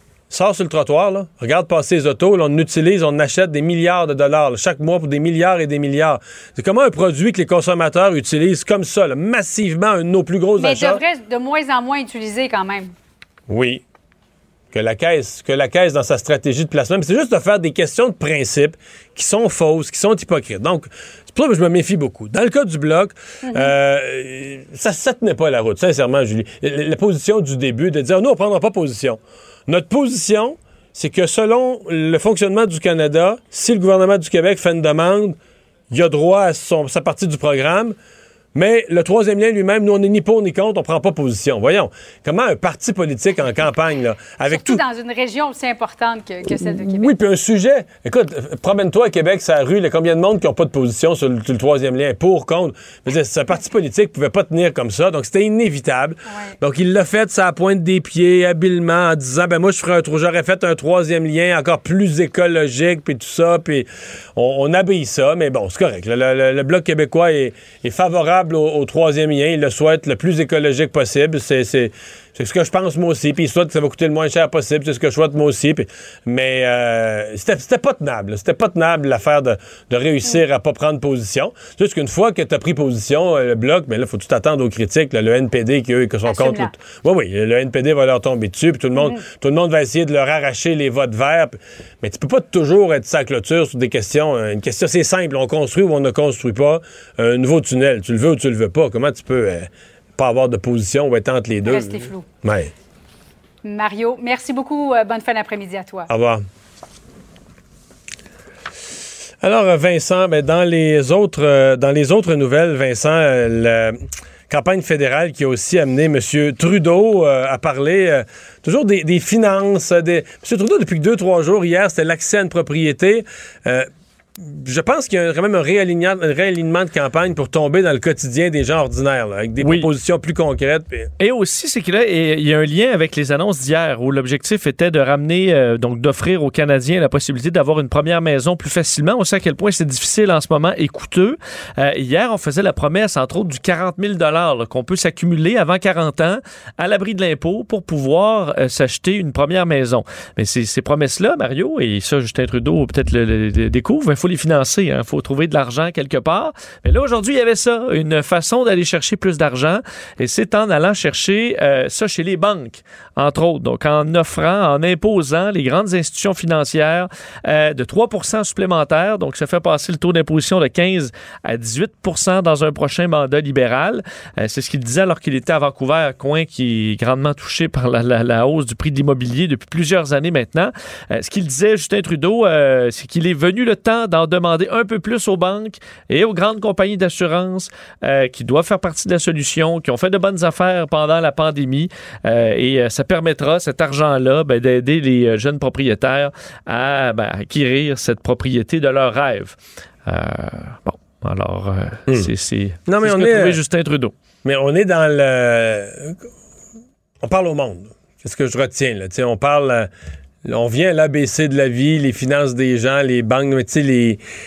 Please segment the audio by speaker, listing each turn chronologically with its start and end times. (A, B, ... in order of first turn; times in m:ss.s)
0:00.3-0:11.0 A
0:10.6-0:12.9 B
0:13.5-0:13.8 A
0:14.7-0:35.4 A
0:23.4-0:23.7 B
0:35.9-0:37.9 A
0:38.5-0:44.8 A
0:44.5-0:47.1 B
0:46.5-1:42.7 A
1:26.3-1:26.7 B
1:29.0-1:29.2 B
1:41.6-1:42.2 B
1:43.6-1:46.1 B
1:46.1-1:46.4 A
1:49.4-2:11.1 A
2:09.6-2:09.9 C
2:11.2-3:24.1 C
3:22.9-3:23.6 A
3:24.4-3:26.2 A
3:27.2-3:29.9 A
3:30.4-3:34.2 A